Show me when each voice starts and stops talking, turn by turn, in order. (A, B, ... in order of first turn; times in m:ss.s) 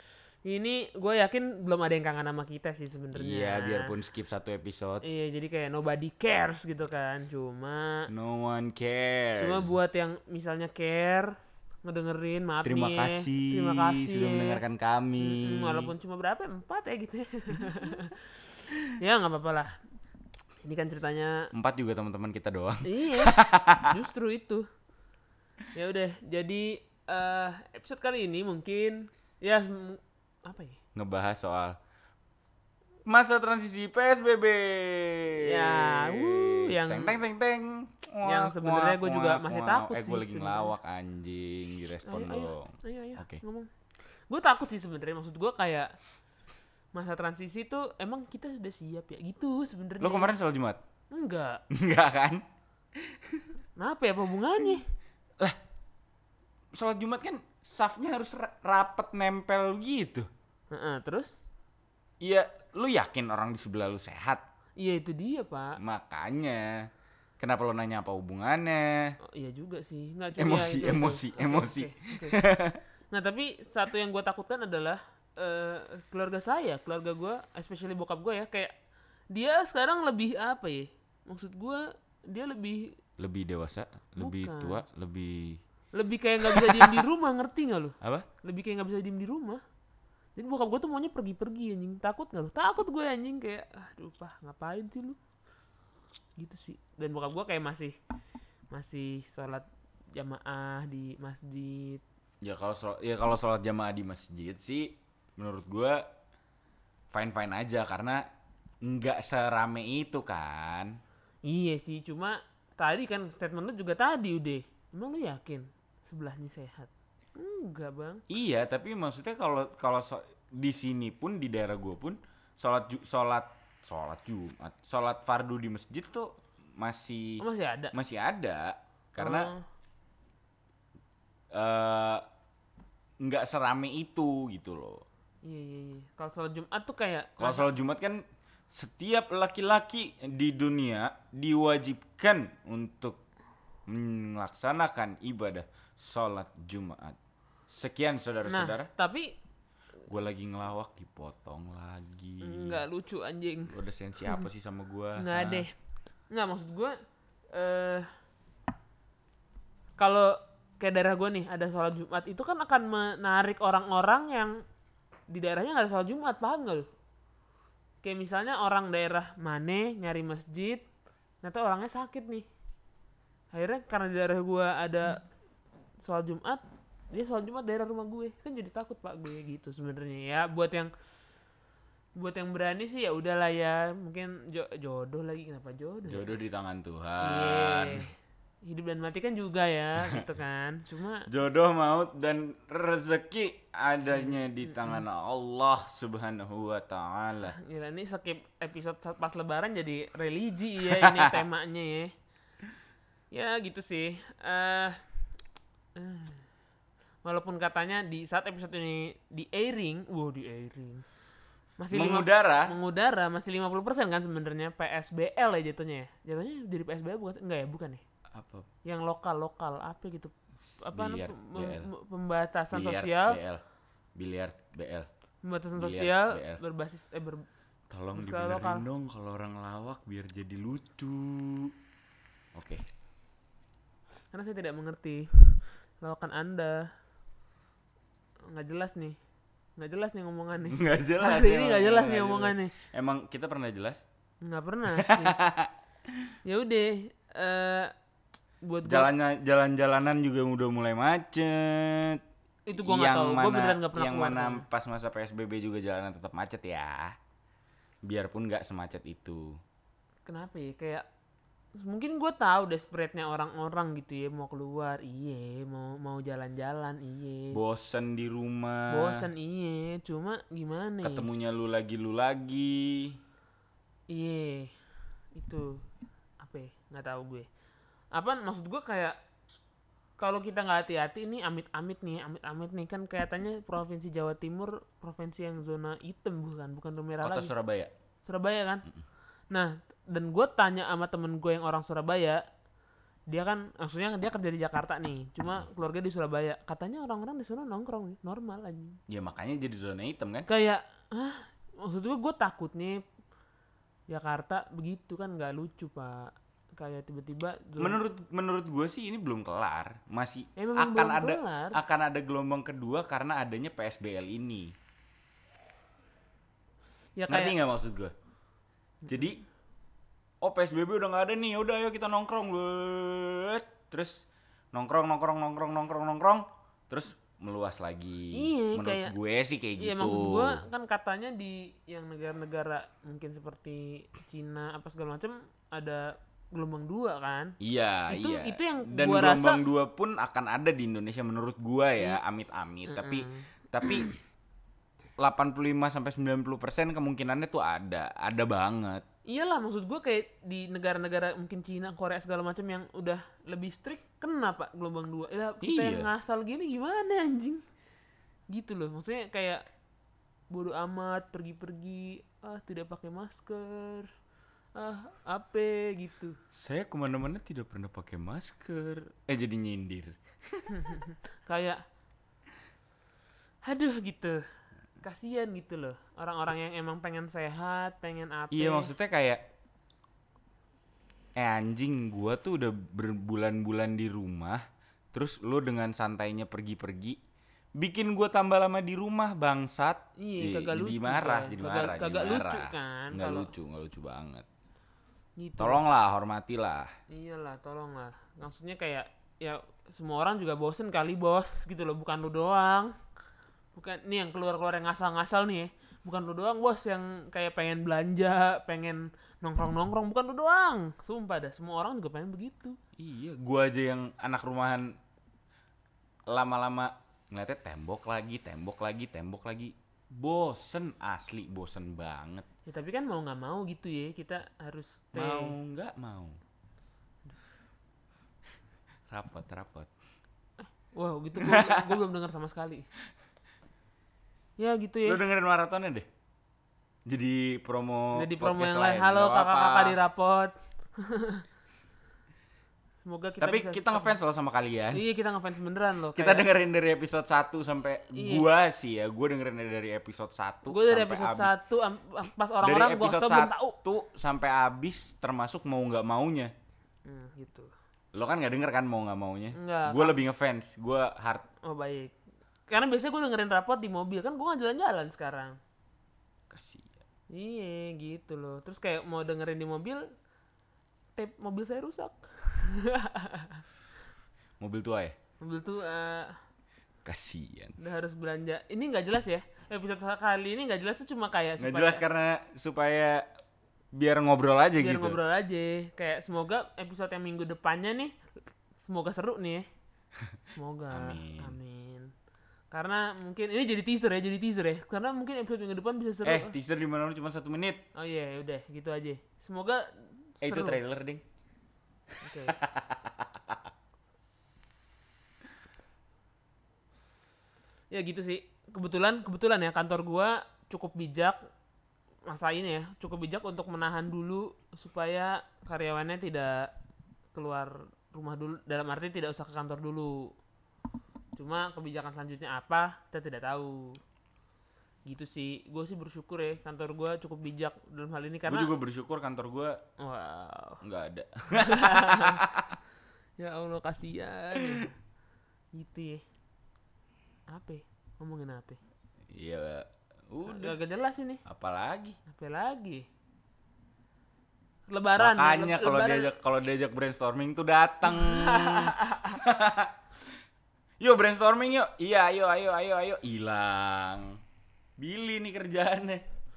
0:00.4-0:03.9 A
0:03.1-0:05.0 B
0:05.0-0:08.1 A
0:08.1-0:09.7 B
0:09.4-0:11.3 A
0:11.8-0:14.6 A
0:12.6-0:15.9 B
0:15.2-0:19.7 A
0:20.6-0:21.5 A
0:21.5-0:24.0 B
0:22.8-0:24.7 A
0:25.7-0:30.8 A
0:31.0-0:31.8 B
0:33.1-0:43.4 B
0:35.4-0:37.2 A
0:38.2-0:40.7 A
0:41.8-0:43.7 A
0:44.3-0:45.9 A
0:46.9-0:50.3 A
0:50.0-0:50.8 B
0:51.1-0:51.6 A
0:51.7-0:52.4 B
0:53.0-0:53.5 B
0:53.8-0:54.8 A
0:56.8-1:00.3 B
1:00.7-1:01.3 A
1:02.2-1:04.4 B
1:04.8-1:05.8 A
1:05.8-1:09.2 B
1:09.2-1:12.4 A
1:10.4-1:12.8 B
1:13.1-1:18.7 A
1:19.3-1:23.0 A
1:23.2-1:25.6 B
1:24.2-1:24.8 A
1:25.9-1:29.6 A
1:26.5-1:27.0 B
1:28.0-1:28.3 B
1:30.4-1:35.2 A
1:36.4-1:38.0 A
1:38.7-1:42.0 A
1:42.4-1:46.0 B
1:47.1-1:48.2 B
1:48.8-1:51.0 B
1:51.4-1:58.2 A
1:58.3-2:09.5 B
2:07.4-2:07.9 A
2:09.2-2:09.6 A
2:11.5-2:12.2 B
2:13.2-2:15.0 B
2:15.4-2:17.7 A
2:17.4-2:23.2 B
2:23.9-2:27.2 B
2:27.7-2:28.9 B
2:28.4-2:29.4 A
2:30.1-2:32.8 B
2:32.4-2:33.7 A
2:33.7-2:35.7 B
2:35.2-2:35.7 A
2:36.3-2:37.0 A
2:37.5-2:38.1 A
2:40.0-2:44.6 A
2:45.3-2:46.9 A
2:48.0-2:50.8 A
2:51.4-2:52.5 A
2:53.5-2:55.2 A
2:56.0-3:00.9 A
3:02.2-3:06.4 A
3:06.1-3:08.1 B
3:07.2-3:08.1 A
3:08.6-3:11.3 A
3:11.3-3:17.6 B
3:14.1-3:15.0 A
3:17.4-3:22.1 A
3:20.9-3:21.4 B
3:23.3-3:25.0 A
3:26.0-3:26.4 A
3:27.2-3:31.0 A
3:31.8-3:38.0 A
3:31.9-3:32.7 B
3:38.3-3:38.7 B
3:38.8-3:43.4 A
3:40.8-3:41.9 B
3:42.7-3:43.6 B
3:44.2-3:45.1 B
3:45.4-3:47.4 A
3:45.8-3:46.6 B
3:47.9-3:51.7 B
3:48.2-3:48.9 A
3:52.5-3:52.8 B
3:54.3-3:56.9 A
3:58.5-3:59.2 A
3:59.8-4:02.7 A
4:00.7-4:04.0 B
4:04.4-4:05.4 A
4:05.0-4:05.7 B
4:06.4-4:07.9 A
4:08.6-4:09.1 A
4:08.8-4:12.2 B
4:12.7-4:14.6 A
4:12.8-4:17.2 B
4:18.0-4:19.6 B
4:20.3-4:21.0 A
4:21.8-4:27.6 A
4:27.5-4:29.2 B
4:28.9-4:31.3 A
4:31.0-4:33.2 B
4:34.1-4:34.7 A
4:35.4-4:35.8 A
4:36.4-4:37.5 A
4:38.1-4:39.2 A
4:40.2-4:47.5 A
4:47.2-4:47.9 B
4:48.2-4:48.8 A
4:49.5-4:52.4 A
4:53.3-4:59.0 A
4:59.1-5:00.5 B
5:00.5-5:03.0 A
5:04.1-5:08.0 A
5:07.8-5:14.8 B
5:10.6-5:11.8 A
5:17.2-5:17.6 A
5:17.3-5:18.1 B
5:19.1-5:19.4 B
5:20.4-5:30.6 B
5:28.3-5:29.1 A
5:29.8-5:37.6 A
5:37.6-5:44.1 B
5:38.1-5:39.6 A
5:42.9-5:44.0 A
5:45.2-5:49.0 B
5:49.3-5:57.6 A
5:55.6-5:56.1 B
5:58.5-5:59.6 A
6:00.5-6:04.1 A
6:04.8-6:06.4 A
6:06.5-6:10.9 B
6:10.7-6:11.8 A
6:13.6-6:14.4 A
6:15.0-6:18.9 A
6:18.5-6:19.4 B
6:21.4-6:24.6 B
6:25.1-6:27.2 B
6:27.8-6:34.5 B
6:30.2-6:33.5 A
6:35.4-6:35.8 A
6:35.6-6:36.9 B
6:37.1-6:42.9 A
6:43.8-6:52.8 A
6:53.0-6:55.0 B
6:56.3-7:02.5 B
7:02.7-7:05.6 A
7:05.1-7:06.4 B
7:09.1-7:09.9 B
7:10.9-7:12.9 A
7:11.4-7:12.0 B
7:14.6-7:15.2 A
7:15.0-7:16.1 B
7:17.1-7:20.0 B
7:18.1-7:21.4 A
7:23.0-7:24.2 A
7:23.4-7:25.0 B
7:24.9-7:26.5 A
7:26.2-7:31.6 B
7:28.1-7:28.5 A
7:30.7-7:33.8 A
7:32.6-7:36.5 B
7:37.1-7:37.7 A
7:38.1-7:41.4 B
7:39.6-7:40.2 A
7:41.6-7:42.1 A
7:42.7-7:45.6 A
7:46.5-7:46.9 B
7:47.3-7:50.1 A
7:51.2-7:53.6 A
7:54.6-7:55.2 B
7:55.4-7:56.4 A
7:57.0-7:57.8 B
7:57.8-8:02.0 A
8:01.6-8:03.3 B
8:03.9-8:05.2 B
8:04.8-8:08.2 A
8:08.8-8:09.6 A
8:10.5-8:12.1 A
8:10.9-8:11.6 B
8:12.7-8:16.6 A
8:16.2-8:17.8 B
8:18.0-8:20.8 A
8:20.4-8:21.2 B
8:22.2-8:22.6 A
8:22.5-8:23.6 B
8:27.9-8:31.4 A
8:32.3-8:36.7 A
8:37.3-8:40.3 A
8:41.4-8:44.0 A
8:45.1-8:48.7 A
8:48.5-8:49.8 B
8:50.0-8:50.8 A
8:50.8-8:52.8 B
8:51.5-8:52.4 A
8:53.4-8:55.0 A
8:55.7-8:56.2 A
8:57.5-8:58.8 A
8:59.3-9:00.8 B
9:00.4-9:01.4 A
9:01.5-9:02.2 B
9:02.3-9:03.1 A
9:04.9-9:06.3 A
9:05.2-9:09.9 B
9:08.0-9:09.4 A
9:11.0-9:14.4 B
9:15.0-9:16.2 B